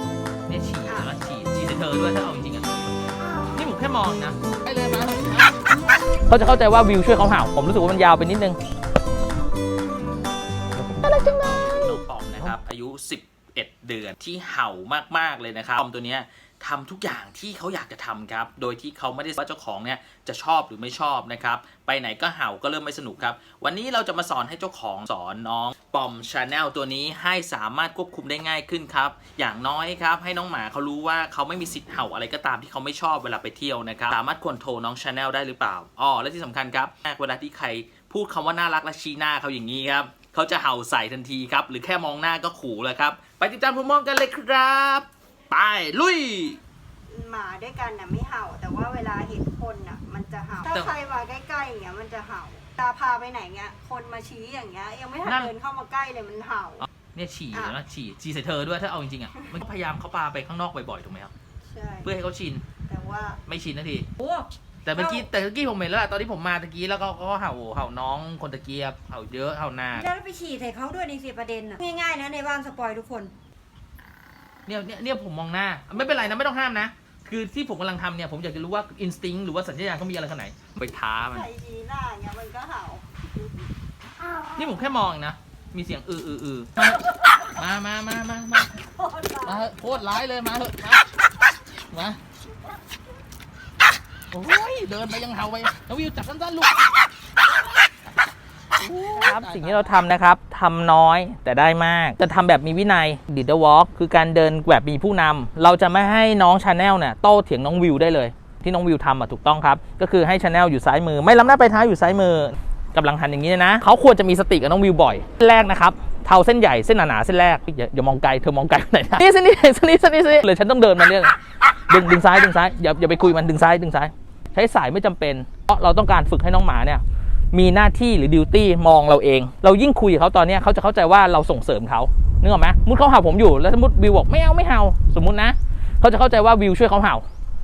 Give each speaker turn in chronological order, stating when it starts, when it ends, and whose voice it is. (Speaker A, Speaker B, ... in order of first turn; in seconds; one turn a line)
Speaker A: 0.5-3.0
Speaker B: 0.8-1.1
Speaker A: 3.5-5.6
Speaker A: 6.3-8.6
Speaker A: 10.8-46.6
Speaker B: 47.1-56.9
Speaker A: 50.7-51.0
Speaker A: 55.2-55.5
Speaker A: 56.8-61.3
Speaker B: 61.6-62.1
Speaker A: 62.0-62.6
Speaker B: 62.9-63.4
Speaker A: 63.5-64.1
Speaker C: 64.2-65.2
Speaker A: 64.9-70.1
Speaker C: 70.0-73.3
Speaker A: 74.7-81.5
Speaker B: 81.3-83.1
Speaker A: 84.6-87.0
Speaker A: 87.5-88.7
Speaker B: 89.0-89.7
Speaker A: 89.4-91.1
Speaker A: 91.9-92.2
Speaker A: 94.3-96.9
Speaker A: 98.8-121.4
Speaker B: 99.2-99.9
Speaker A: 121.9-137.2